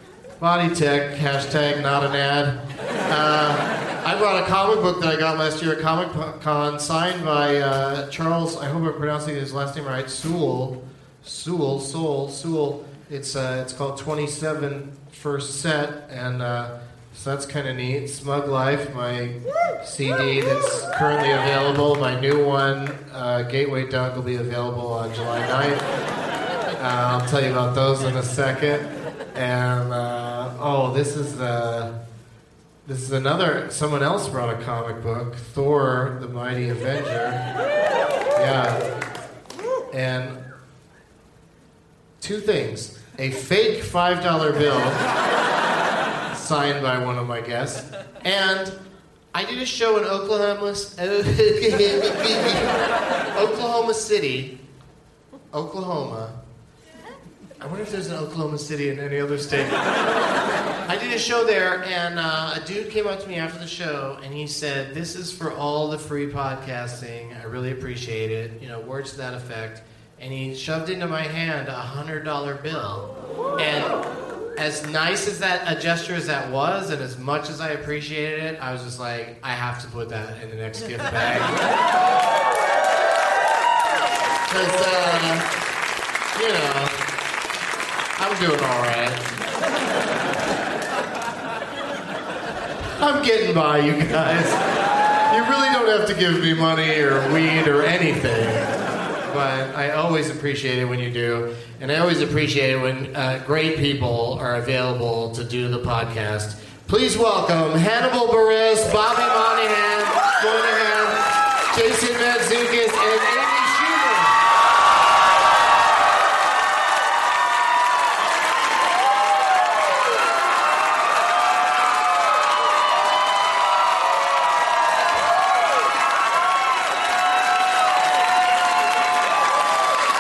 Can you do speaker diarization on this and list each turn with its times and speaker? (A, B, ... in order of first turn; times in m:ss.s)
0:00.4-0:25.8 A
0:26.8-0:31.9 A
0:32.8-0:37.5 A
0:38.3-0:38.9 A
0:39.9-0:40.4 A
0:42.2-0:45.0 A
0:46.3-0:48.7 A
0:49.3-0:52.7 A
0:53.3-0:54.6 A
0:55.5-0:56.4 A
0:57.6-0:59.8 A
1:00.9-1:14.0 A
1:14.6-1:21.6 A
1:24.5-1:25.4 A
1:26.3-1:27.0 A
1:28.2-1:29.2 A
1:33.0-1:34.6 A
1:35.3-1:38.7 A
1:39.3-1:54.3 A